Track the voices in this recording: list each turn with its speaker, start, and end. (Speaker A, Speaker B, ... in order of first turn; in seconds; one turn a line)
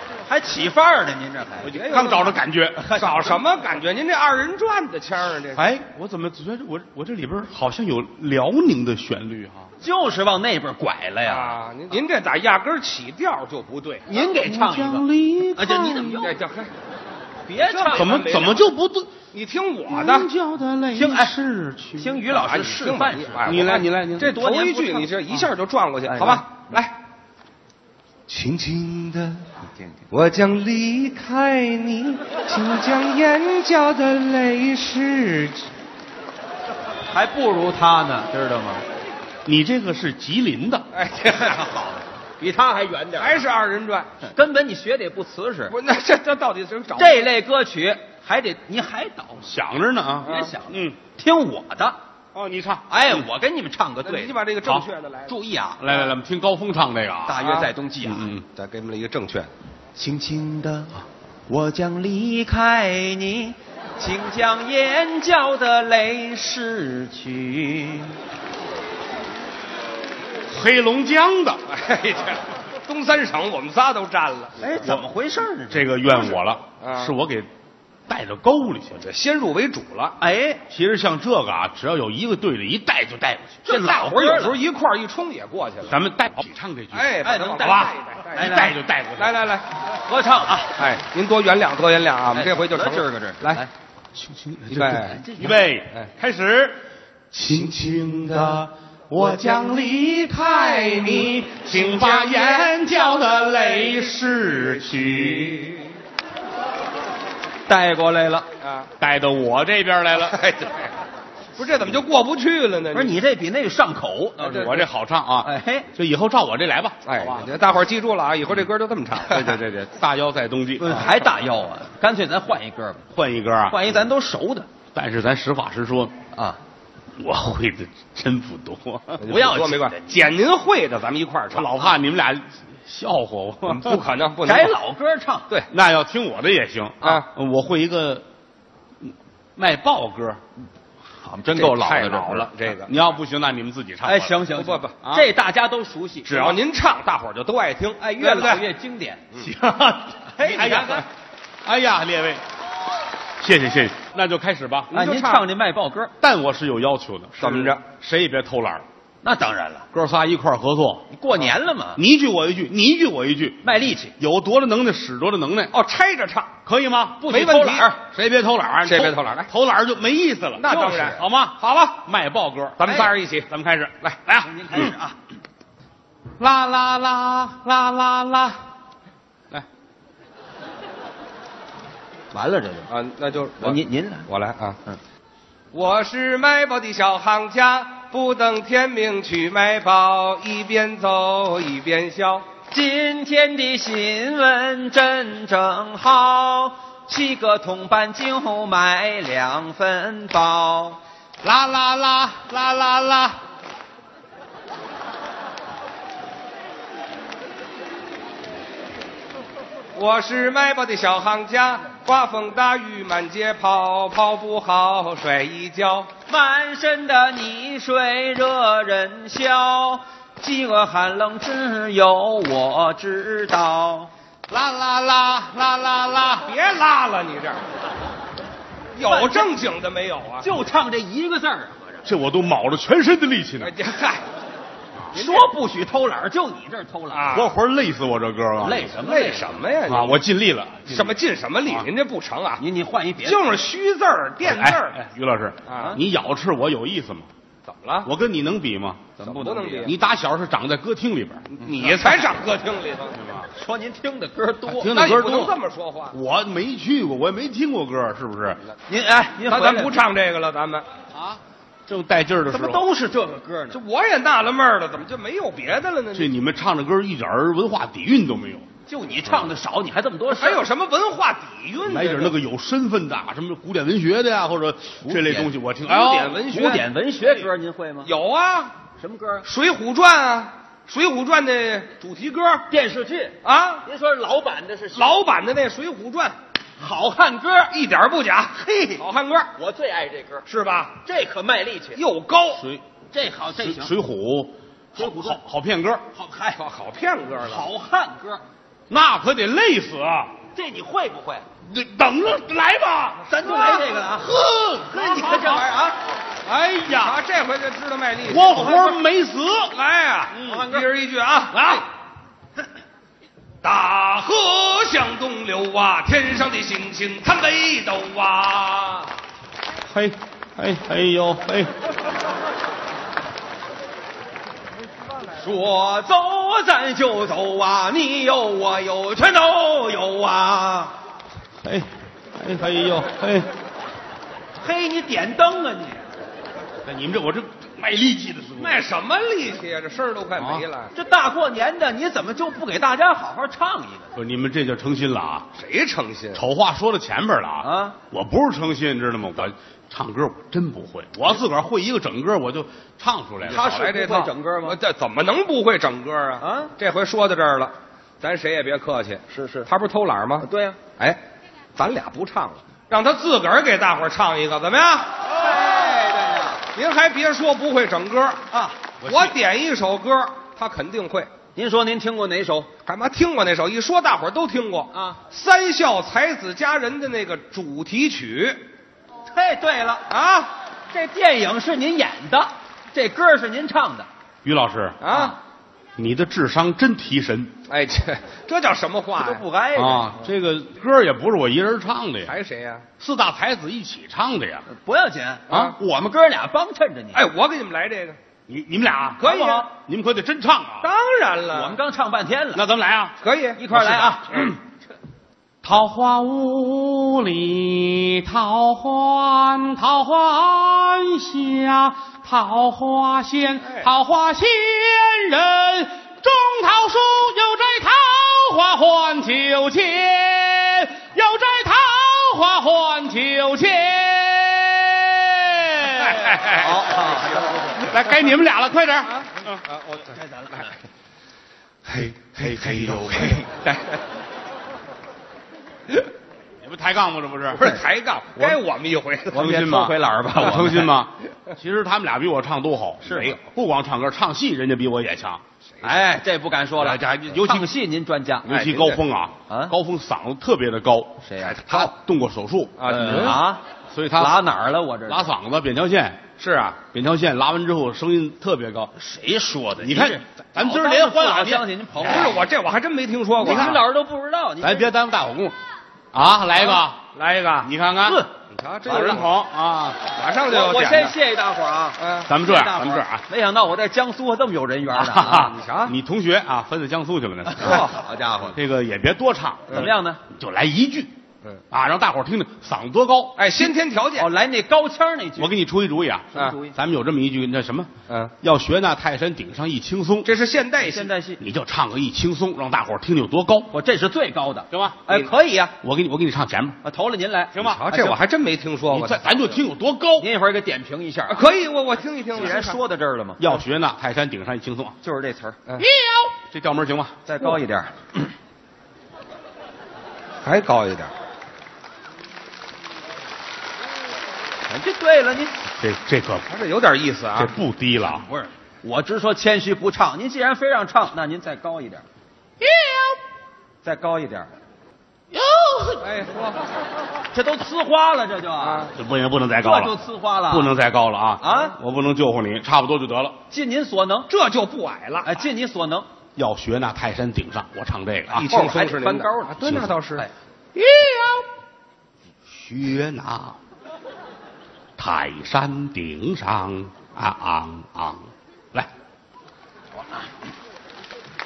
Speaker A: 0.2-1.8
Speaker B: 1.6-2.9
Speaker C: 1.6-2.4
Speaker A: 2.8-3.4
Speaker C: 3.0-5.7
Speaker B: 5.5-9.7
Speaker A: 9.8-11.6
Speaker C: 11.2-14.1
Speaker A: 14.1-16.4
Speaker B: 14.3-16.3
Speaker C: 16.2-16.7
Speaker A: 17.4-18.4
Speaker C: 17.6-18.6
Speaker B: 17.9-19.1
Speaker C: 19.3-20.3
Speaker B: 19.9-22.2
Speaker A: 20.9-21.4
Speaker A: 21.9-23.6
Speaker C: 22.3-26.9
Speaker B: 23.4-24.3
Speaker A: 24.2-25.4
Speaker A: 26.1-26.8
Speaker C: 28.3-29.5
Speaker C: 30.1-35.7
Speaker A: 37.1-38.8
Speaker B: 39.5-40.9
Speaker C: 40.9-41.6
Speaker A: 41.3-43.4
Speaker C: 43.2-44.1
Speaker A: 44.2-45.8
Speaker C: 45.7-47.3
Speaker A: 47.0-49.6
Speaker B: 49.5-51.0
Speaker C: 50.2-50.5
Speaker A: 50.2-52.0
Speaker B: 52.4-53.3
Speaker A: 52.9-54.4
Speaker C: 54.0-55.4
Speaker A: 55.3-56.1
Speaker B: 55.8-57.4
Speaker A: 57.3-58.3
Speaker C: 57.4-57.7
Speaker B: 58.0-58.5
Speaker C: 58.5-59.5
Speaker A: 60.0-68.2
Speaker B: 70.5-71.6
Speaker C: 71.7-74.6
Speaker A: 74.6-76.0
Speaker B: 74.8-75.0
Speaker B: 75.7-77.5
Speaker C: 76.8-77.2
Speaker B: 78.1-79.0
Speaker C: 79.0-80.2
Speaker A: 80.2-80.6
Speaker B: 80.7-84.5
Speaker A: 83.7-84.6
Speaker C: 83.9-86.0
Speaker B: 85.9-89.4
Speaker C: 86.9-89.7
Speaker A: 87.2-88.8
Speaker A: 90.1-90.7
Speaker C: 90.8-93.6
Speaker A: 92.3-93.7
Speaker B: 94.2-96.8
Speaker C: 94.7-95.2
Speaker A: 95.1-95.6
Speaker B: 97.3-105.8
Speaker A: 107.7-108.5
Speaker C: 108.6-108.9
Speaker B: 109.0-110.4
Speaker C: 110.2-110.9
Speaker C: 111.6-113.2
Speaker A: 112.9-114.8
Speaker C: 114.4-114.9
Speaker B: 114.4-117.5
Speaker A: 115.4-115.9
Speaker C: 117.0-119.6
Speaker B: 119.2-121.2
Speaker A: 120.8-123.0
Speaker B: 123.1-124.0
Speaker A: 123.7-124.7
Speaker B: 124.9-126.2
Speaker A: 126.3-126.6
Speaker B: 127.2-129.5
Speaker C: 129.2-131.8
Speaker A: 129.3-129.9
Speaker B: 131.5-134.0
Speaker C: 133.7-134.8
Speaker A: 134.4-135.5
Speaker B: 135.7-138.2
Speaker B: 139.1-140.4
Speaker A: 141.2-142.5
Speaker C: 141.6-142.9
Speaker B: 142.8-144.4
Speaker A: 144.0-146.6
Speaker C: 144.6-144.9
Speaker B: 145.0-145.3
Speaker C: 146.2-148.7
Speaker A: 148.0-149.3
Speaker B: 149.4-151.1
Speaker A: 150.3-151.1
Speaker B: 151.6-152.4
Speaker B: 153.4-154.9
Speaker A: 154.9-156.1
Speaker C: 154.9-155.5
Speaker B: 156.2-158.8
Speaker C: 157.4-157.8
Speaker A: 159.2-159.9
Speaker B: 159.9-161.1
Speaker A: 161.1-162.0
Speaker B: 162.0-165.7
Speaker A: 163.6-164.1
Speaker C: 165.7-166.5
Speaker B: 166.7-167.3
Speaker A: 167.2-168.0
Speaker C: 167.3-167.9
Speaker B: 168.0-174.9
Speaker C: 168.9-169.5
Speaker C: 170.6-172.0
Speaker A: 170.6-171.2
Speaker C: 172.8-173.5
Speaker A: 174.4-175.2
Speaker B: 176.4-178.6
Speaker A: 182.3-182.9
Speaker C: 182.9-184.8
Speaker A: 183.6-184.3
Speaker C: 185.7-192.5
Speaker A: 192.7-201.0
Speaker B: 201.4-203.4
Speaker C: 209.9-216.1
Speaker A: 216.3-224.1
Speaker B: 224.5-226.5
Speaker C: 226.4-227.6
Speaker C: 229.0-230.5
Speaker A: 229.0-229.6
Speaker A: 230.4-232.1
Speaker B: 232.1-233.7
Speaker C: 233.6-234.2
Speaker A: 235.1-237.4
Speaker C: 237.1-237.5
Speaker B: 237.3-238.9
Speaker A: 238.6-239.6
Speaker C: 239.0-240.2
Speaker B: 239.9-241.9
Speaker C: 240.9-242.6
Speaker A: 242.6-243.5
Speaker C: 243.2-245.0
Speaker B: 244.4-247.3
Speaker C: 245.7-246.0
Speaker A: 245.8-246.0
Speaker C: 247.7-248.1
Speaker B: 248.0-249.1
Speaker A: 249.2-249.9
Speaker C: 249.2-249.9
Speaker B: 249.8-251.5
Speaker C: 251.5-253.2
Speaker A: 252.0-252.3
Speaker B: 253.1-253.5
Speaker A: 253.5-254.9
Speaker B: 254.7-255.6
Speaker C: 254.9-256.2
Speaker B: 256.1-258.6
Speaker A: 258.9-259.9
Speaker C: 259.4-260.9
Speaker B: 261.1-262.9
Speaker A: 262.5-263.8
Speaker C: 263.7-266.3
Speaker B: 266.1-268.7
Speaker A: 268.9-270.7
Speaker C: 270.4-272.4
Speaker B: 271.9-276.4
Speaker A: 275.0-275.6
Speaker C: 275.9-277.4
Speaker A: 276.5-278.1
Speaker C: 278.0-278.8
Speaker A: 279.0-279.5
Speaker C: 279.4-282.7
Speaker A: 282.7-285.1
Speaker C: 283.4-283.9
Speaker C: 284.9-286.4
Speaker A: 286.8-287.8
Speaker C: 287.7-289.5
Speaker A: 288.6-289.0
Speaker A: 289.6-290.4
Speaker C: 290.5-291.0
Speaker A: 291.0-292.0
Speaker C: 291.9-292.6
Speaker B: 292.6-292.8
Speaker A: 293.1-293.9
Speaker B: 293.6-296.0
Speaker A: 295.0-295.4
Speaker A: 296.1-296.6
Speaker C: 296.6-297.7
Speaker A: 297.4-298.4
Speaker B: 298.9-300.3
Speaker A: 300.5-301.5
Speaker B: 301.7-305.7
Speaker A: 303.3-306.0
Speaker B: 306.5-307.2
Speaker C: 306.9-308.8
Speaker B: 308.2-309.7
Speaker A: 308.5-309.0
Speaker C: 309.7-311.8
Speaker A: 310.4-310.9
Speaker B: 311.5-311.8
Speaker C: 313.6-319.1
Speaker B: 319.9-321.7
Speaker A: 325.4-331.0
Speaker B: 331.6-333.5
Speaker A: 334.6-336.1
Speaker B: 336.9-338.8
Speaker C: 338.6-340.9
Speaker B: 340.4-340.7
Speaker A: 340.9-344.1
Speaker B: 344.1-345.5
Speaker C: 345.6-346.4
Speaker B: 346.3-354.1
Speaker A: 347.6-348.0
Speaker C: 353.4-360.5
Speaker A: 353.4-354.8
Speaker A: 356.4-356.7
Speaker A: 359.3-359.7
Speaker A: 360.4-360.8
Speaker C: 361.8-365.1
Speaker A: 365.4-366.6
Speaker C: 366.7-368.4
Speaker A: 368.5-368.8
Speaker B: 369.0-369.4
Speaker C: 369.1-371.3
Speaker A: 371.6-372.7
Speaker C: 372.9-378.6
Speaker A: 374.9-375.2
Speaker A: 379.3-380.1
Speaker C: 380.1-380.5
Speaker A: 380.9-384.1
Speaker B: 384.4-385.0
Speaker C: 385.0-385.4
Speaker A: 385.1-385.4
Speaker B: 386.0-387.6
Speaker C: 387.7-389.4
Speaker A: 389.2-390.2
Speaker B: 389.8-392.3
Speaker C: 392.2-392.9
Speaker B: 393.0-394.7
Speaker A: 394.7-397.3
Speaker C: 395.5-395.8
Speaker C: 397.1-398.2
Speaker B: 398.5-400.9
Speaker C: 399.2-399.7
Speaker A: 399.2-399.7
Speaker C: 400.8-401.8
Speaker A: 401.5-402.7
Speaker B: 402.5-403.1
Speaker C: 403.2-403.6
Speaker A: 403.6-404.5
Speaker B: 403.7-404.6
Speaker B: 405.6-429.6
Speaker C: 413.6-413.9
Speaker C: 426.0-426.6
Speaker A: 426.5-427.9
Speaker C: 429.1-430.1
Speaker A: 430.1-430.7
Speaker B: 431.9-433.4
Speaker C: 432.1-434.0
Speaker B: 436.6-437.7
Speaker C: 437.5-439.4
Speaker A: 439.3-440.9
Speaker B: 439.3-445.4
Speaker A: 443.1-443.3
Speaker C: 443.1-443.4
Speaker C: 445.7-446.0
Speaker A: 445.8-448.5
Speaker B: 446.8-447.7
Speaker B: 448.4-454.4
Speaker C: 448.5-449.0
Speaker A: 449.5-449.7
Speaker A: 451.2-451.6
Speaker C: 451.4-451.9
Speaker C: 452.8-453.4
Speaker A: 452.9-453.6
Speaker A: 454.1-455.3
Speaker B: 455.1-458.9
Speaker A: 459.0-462.4
Speaker B: 459.8-462.3
Speaker C: 462.1-463.8
Speaker B: 463.4-463.9
Speaker A: 463.4-464.9
Speaker B: 464.6-465.6
Speaker B: 466.1-467.0
Speaker C: 466.8-467.7
Speaker B: 467.6-468.2
Speaker A: 468.0-468.3
Speaker C: 468.5-469.4
Speaker B: 468.9-470.0
Speaker C: 470.1-471.2
Speaker A: 470.5-475.6
Speaker C: 472.0-472.3
Speaker B: 472.3-473.2
Speaker B: 474.9-477.9
Speaker C: 475.3-475.9
Speaker A: 477.6-478.6
Speaker C: 477.6-477.9
Speaker B: 478.5-481.1
Speaker A: 479.7-480.2
Speaker B: 481.7-483.4
Speaker C: 483.4-484.3
Speaker A: 483.6-485.6
Speaker B: 485.4-487.9
Speaker A: 486.3-486.8
Speaker C: 488.1-488.3
Speaker B: 488.4-490.3
Speaker C: 490.2-491.1
Speaker A: 490.8-491.4
Speaker B: 491.4-493.7
Speaker A: 493.7-495.7
Speaker B: 494.7-496.8
Speaker A: 496.8-498.2
Speaker B: 497.5-497.8
Speaker C: 497.6-499.3
Speaker B: 498.9-500.3
Speaker A: 500.2-501.4
Speaker C: 501.3-502.8
Speaker A: 502.3-503.6
Speaker B: 503.4-505.0
Speaker A: 505.0-505.6
Speaker B: 505.8-507.5
Speaker A: 507.3-508.3
Speaker C: 510.4-511.1
Speaker A: 514.7-515.5
Speaker B: 515.8-516.5
Speaker C: 516.5-517.6
Speaker B: 517.4-518.3
Speaker A: 518.0-522.1
Speaker A: 523.8-524.5
Speaker C: 526.0-526.6
Speaker A: 527.3-528.9
Speaker C: 528.6-528.9
Speaker B: 528.9-530.0
Speaker A: 529.6-530.7
Speaker B: 530.5-533.4
Speaker A: 531.4-531.8
Speaker A: 533.5-534.3
Speaker C: 534.3-535.4
Speaker A: 535.2-536.1
Speaker B: 536.4-538.5
Speaker C: 538.3-540.3
Speaker A: 538.4-540.3
Speaker B: 539.6-539.9
Speaker C: 540.8-541.5
Speaker B: 542.5-543.6
Speaker B: 545.0-548.9